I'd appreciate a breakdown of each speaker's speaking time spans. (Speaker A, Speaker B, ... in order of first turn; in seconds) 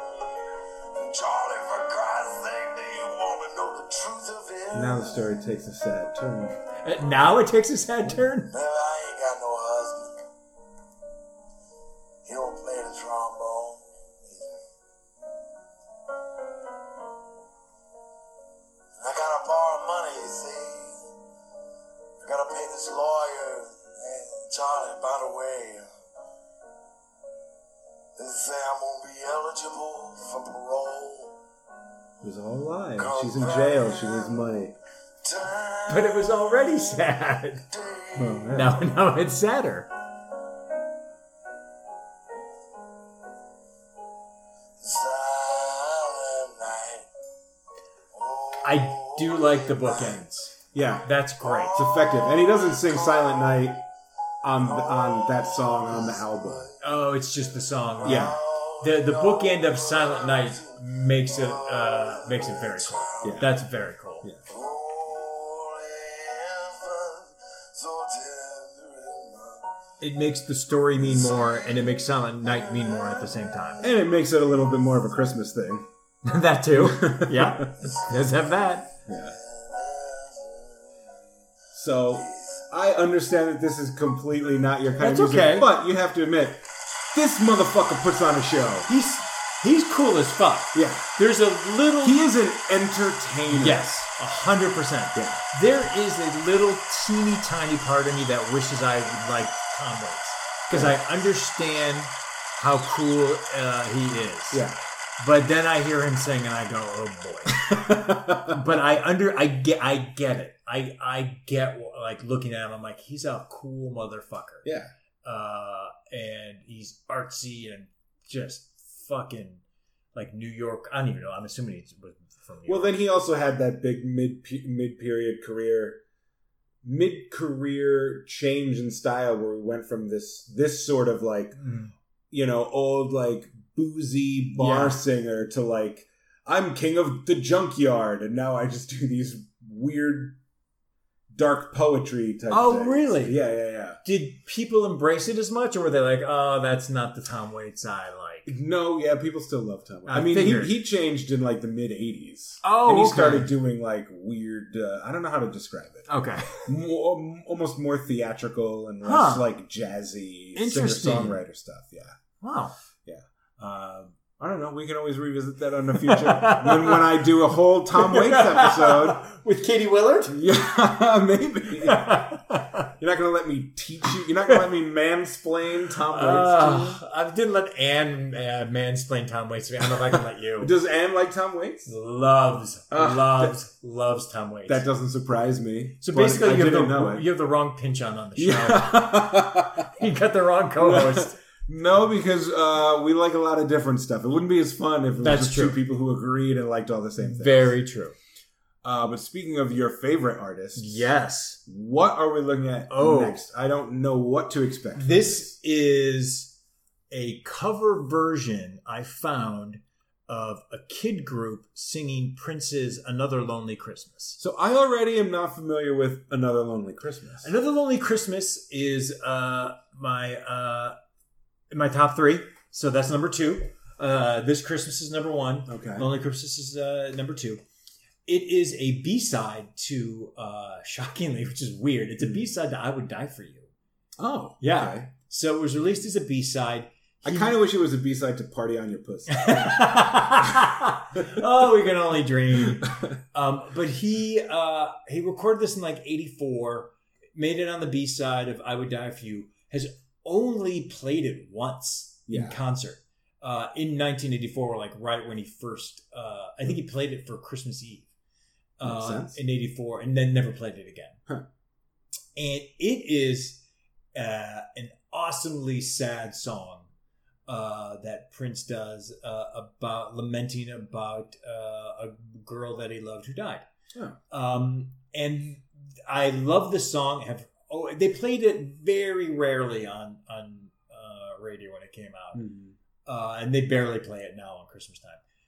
Speaker A: 0.9-5.2, 8.5-10.2, 12.2-14.6, 19.0-21.0, 22.2-25.9, 28.2-31.4, 33.0-34.4, 35.2-37.0, 37.7-38.5, 44.8-47.1, 48.1-50.2, 51.4-53.8, 54.6-56.8, 58.0-63.6, 64.5-69.7, 71.1-71.9, 72.4-73.7, 79.1-81.0, 82.1-82.7
Speaker B: 4.7-6.6, 32.2-34.8, 38.1-38.8, 50.7-51.1, 51.7-53.8, 54.4-56.7, 58.0-58.4, 63.2-63.5, 73.8-75.9, 76.8-77.7, 79.1-79.4, 81.7-88.9, 90.7-91.1, 92.0-93.9, 95.1-95.4, 100.7-101.0, 104.5-104.8, 107.6-108.6, 114.6-114.9, 122.7-126.0, 126.8-131.6, 132.3-140.4, 141.3-144.0, 148.5-156.1, 156.7-162.2, 163.1-169.2, 170.3-172.4, 173.0-177.0, 180.6-181.9, 182.9-183.6, 184.7-187.3, 188.4-189.9, 190.8-197.7, 198.8-201.1, 201.7-205.4, 214.4-217.5, 225.7-226.1, 232.2-232.5, 234.2-235.1, 237.2-240.1, 242.7-243.0, 252.3-252.6, 258.8-259.4, 282.3-282.8
Speaker C: 6.8-8.5, 35.9-37.6, 38.5-39.9, 48.6-51.9, 56.8-64.3, 70.0-73.8, 76.2-78.9, 85.0-85.7, 88.9-92.2, 93.5-104.7, 105.2-107.7, 108.5-114.7, 115.2-119.6, 120.2-123.0, 131.6-131.9, 134.6-135.0, 142.5-143.4, 144.0-148.5, 150.1-150.8, 152.6-153.5, 156.1-156.7, 159.1-159.5, 160.6-161.4, 162.4-162.7, 166.1-167.3, 167.9-170.4, 171.8-172.9, 176.1-180.7, 181.9-184.8, 186.0-191.4, 195.2-195.8, 197.2-198.2, 200.8-201.6, 202.9-203.4, 204.9-206.6, 207.1-214.4, 217.4-220.9, 221.7-227.6, 228.3-233.7, 234.6-237.6, 239.3-258.1, 258.8-261.2, 262.4-263.6, 264.1-266.9, 267.5-273.7, 274.3-282.4, 283.1-285.2